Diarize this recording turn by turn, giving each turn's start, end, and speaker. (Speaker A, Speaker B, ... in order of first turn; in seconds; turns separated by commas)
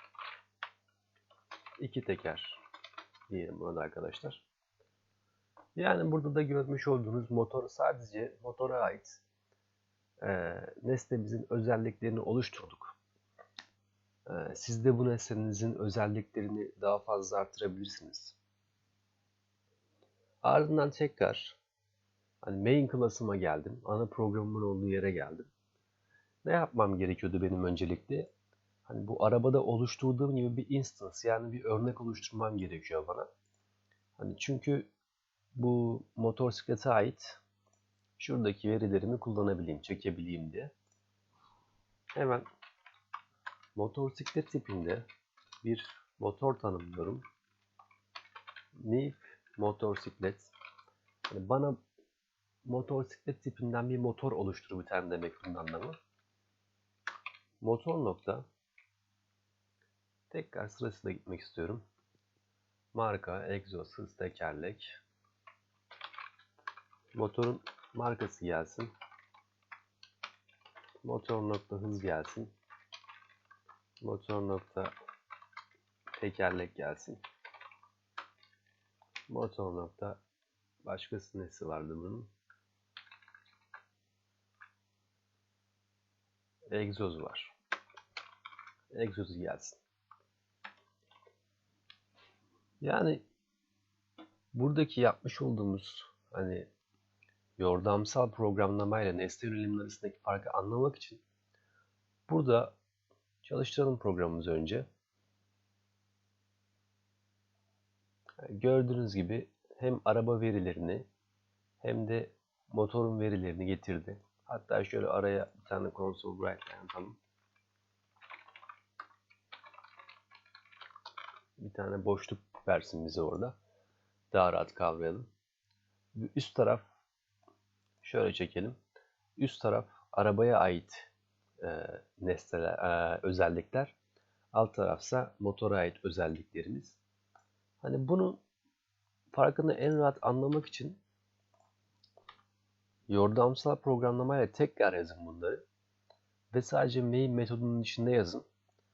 Speaker A: 1.8-2.6, Speaker A: 3.3-4.5, Speaker A: 5.8-9.2, Speaker A: 10.2-12.9, Speaker A: 14.3-18.4, Speaker A: 20.4-21.6, Speaker A: 22.4-25.5, Speaker A: 26.4-28.3, Speaker A: 28.9-33.3, Speaker A: 34.2-34.9, Speaker A: 35.5-37.4, Speaker A: 38.2-40.7, Speaker A: 42.1-42.5, Speaker A: 43.8-45.0, Speaker A: 45.6-47.2, Speaker A: 48.7-50.5, Speaker A: 51.3-51.8, Speaker A: 52.6-56.0, Speaker A: 57.6-58.5, Speaker A: 60.3-61.8, Speaker A: 62.9-65.0, Speaker A: 67.1-68.9, Speaker A: 71.0-72.5, Speaker A: 74.0-74.9, Speaker A: 76.2-77.2, Speaker A: 79.3-80.2, Speaker A: 80.8-82.3, Speaker A: 86.7-87.5, Speaker A: 88.9-89.8, Speaker A: 92.8-93.2, Speaker A: 94.5-96.7, Speaker A: 97.6-101.2, Speaker A: 102.3-102.7, Speaker A: 103.4-104.8, Speaker A: 108.4-111.1, Speaker A: 111.8-117.2, Speaker A: 121.6-123.6, Speaker A: 124.3-125.3, Speaker A: 126.2-126.8, Speaker A: 128.0-128.8, Speaker A: 129.4-131.1, Speaker A: 131.6-133.9, Speaker A: 134.5-137.0, Speaker A: 137.8-138.4, Speaker A: 139.3-141.0, Speaker A: 143.1-145.6, Speaker A: 146.5-148.4